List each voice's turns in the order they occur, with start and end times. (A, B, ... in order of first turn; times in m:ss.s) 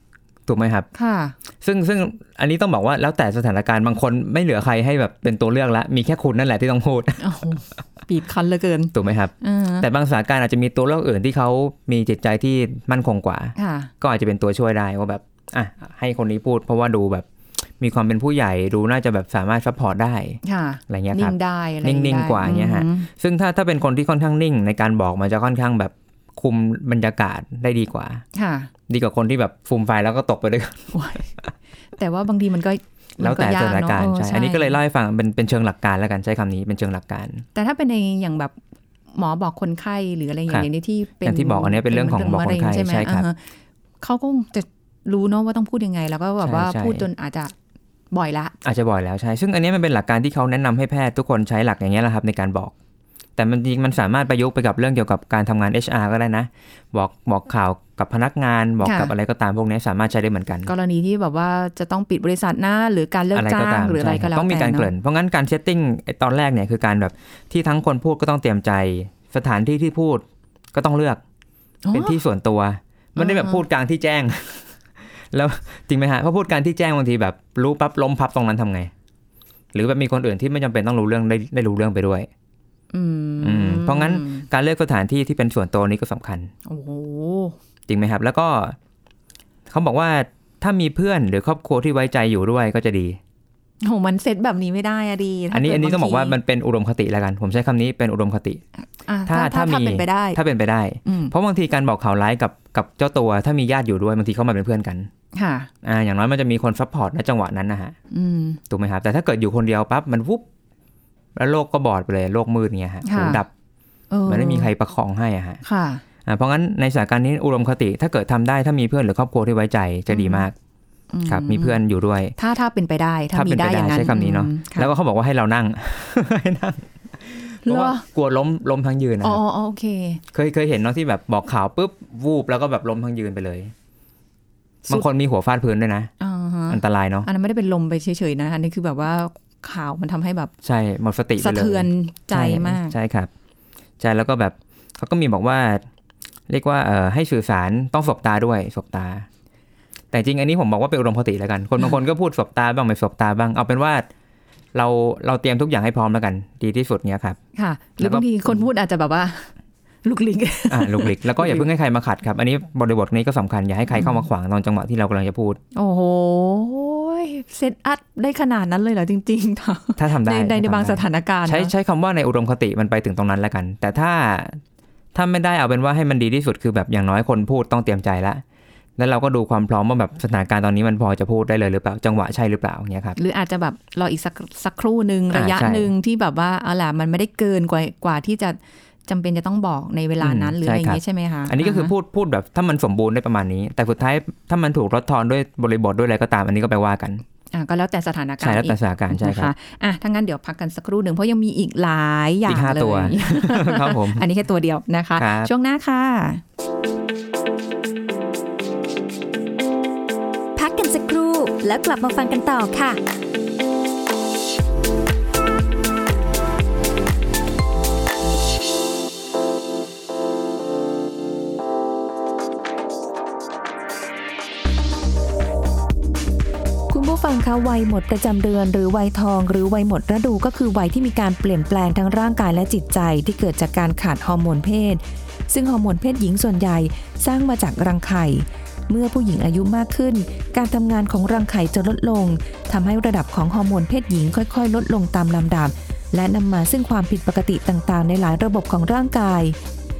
0:00.5-0:00.9 A
0:01.0-0:01.4 B
0:01.6-0:07.2 A
0:07.2-0:09.9 B
0:08.9-0:17.3 A
0:13.6-0:13.9 B
0:17.8-0:28.2 A
0:20.4-0:23.1 B
0:28.4-0:28.7 B
0:28.9-0:31.5 A
0:30.9-0:31.3 B
0:32.0-0:34.8 B
0:33.2-0:37.5 A
0:37.6-0:38.6 B
0:39.2-0:43.4 B
0:41.2-0:43.3 A
0:44.0-0:47.5 B
0:46.4-0:47.1 A
0:48.1-0:48.6 B
0:48.6-0:52.7 A
0:53.4-1:00.7 A
0:58.8-0:59.1 B
1:00.7-1:04.9 B
1:03.3-1:11.2 A
1:11.8-1:12.2 B
1:11.9-1:14.7 A
1:13.2-1:13.6 B
1:15.3-1:18.9 A
1:19.7-1:22.3 A
1:22.9-1:24.4 B
1:23.4-1:26.5 A
1:26.7-1:27.6 B
1:27.9-1:28.8 A
1:29.7-1:33.2 A
1:33.8-1:36.4 B
1:35.5-1:38.6 A
1:39.1-1:40.4 B
1:39.3-1:45.1 A
1:41.0-1:41.3 B
1:45.4-1:45.7 B
1:45.8-1:48.0 A
1:48.1-1:48.6 B
1:48.7-1:50.4 A
1:51.4-1:53.5 A
1:53.0-1:53.4 B
1:54.1-1:54.7 B
1:54.3-1:55.6 A
1:55.6-1:56.0 B
1:56.2-2:00.5 A
2:00.1-2:00.4 B
2:01.1-2:01.8 B
2:01.3-2:02.4 A
2:02.4-2:04.9 B
2:03.3-2:09.4 A
2:07.6-2:08.0 B
2:09.2-2:10.2 B
2:10.3-2:13.7 A
2:14.9-2:16.1 A
2:16.2-2:20.5 B
2:16.7-2:17.3 A
2:20.6-2:23.3 A
2:21.4-2:23.0 B
2:24.0-2:25.8 A
2:26.5-2:29.3 A
2:30.1-2:34.0 A
2:34.8-2:37.4 A
2:37.6-2:39.5 B
2:38.0-2:38.6 A
2:40.0-2:41.7 B
2:40.7-2:45.6 A
2:44.0-2:44.2 B
2:45.8-2:51.7 B
2:50.0-2:54.6 A
2:55.2-2:58.4 A
2:59.0-3:03.2 A
3:03.2-3:11.9 B
3:05.3-3:05.9 A
3:10.2-3:17.2 A
3:17.5-3:26.4 B
3:18.4-3:19.5 A
3:22.5-3:24.2 A
3:25.2-3:25.5 A
3:30.6-3:33.0 C
3:46.9-4:09.6 D